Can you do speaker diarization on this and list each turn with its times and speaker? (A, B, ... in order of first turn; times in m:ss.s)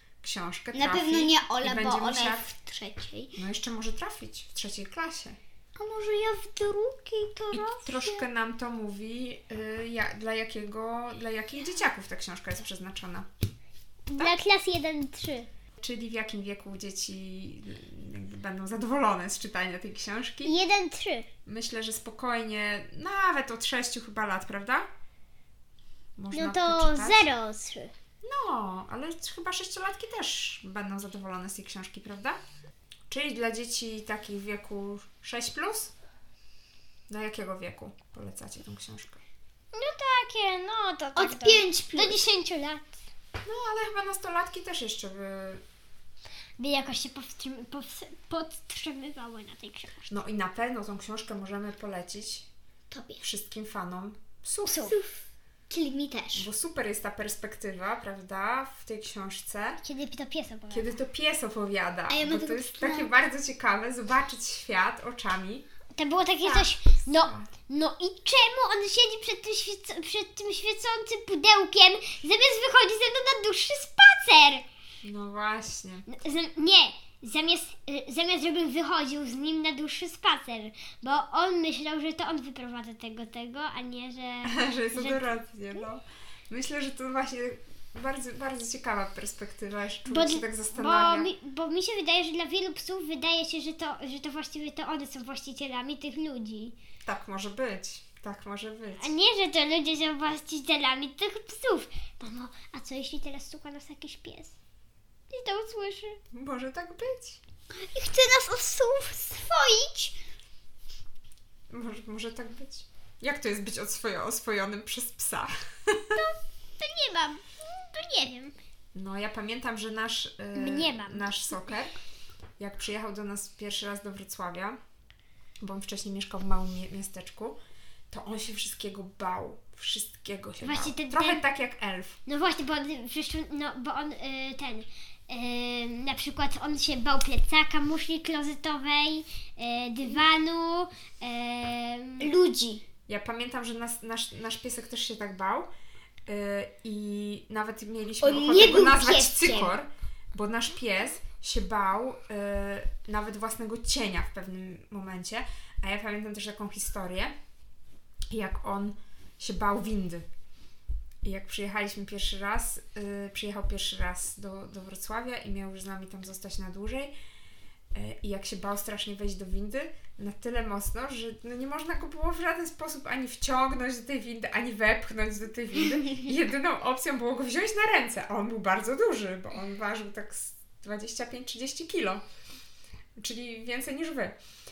0:00.2-0:02.5 A
0:00.7-0:03.4 B
0:03.4-0:05.4 A
0:05.8-0:08.2 B
0:07.5-0:13.3 A
0:14.1-0:15.5 C
0:15.8-0:20.6 A
0:20.4-0:21.3 C
0:21.4-0:24.9 A
0:26.2-0:27.3 A
0:26.3-0:27.9 C
0:28.2-0:32.4 A
0:33.1-0:35.9 A
0:37.1-0:39.2 A
0:39.7-0:42.9 C
0:41.1-0:42.2 B
0:43.4-0:45.6 A
0:46.6-0:50.1 C
0:50.1-0:52.5 A
0:52.9-0:53.2 B
0:53.2-0:54.9 A
0:54.6-0:54.9 C
0:54.7-0:56.5 B
0:56.3-0:59.8 A
0:59.8-1:01.0 C
1:00.7-1:05.7 A
1:02.1-1:03.1 B
1:05.9-1:14.6 C
1:06.5-1:07.5 A
1:15.0-1:16.1 A
1:16.1-1:25.9 C
1:24.4-1:31.3 A
1:30.0-1:36.7 C
1:37.0-1:39.1 A
1:39.0-1:44.6 C
1:45.3-1:46.2 C
1:46.3-1:47.4 A
1:47.8-1:50.2 B
1:51.7-1:56.1 A
1:56.2-1:58.3 B
1:58.0-1:58.5 C
1:58.9-2:02.0 A
2:00.5-2:01.6 C
2:02.6-2:04.8 A
2:05.6-2:07.6 A
2:08.1-2:12.2 A
2:10.6-2:11.4 C
2:12.3-2:22.3 C
2:22.2-2:22.8 B
2:23.1-2:25.7 A
2:26.3-2:37.3 A
2:28.2-2:29.7 B
2:38.3-2:40.2 A
2:41.2-2:47.1 A
2:47.9-3:02.2 A
3:03.2-3:04.4 A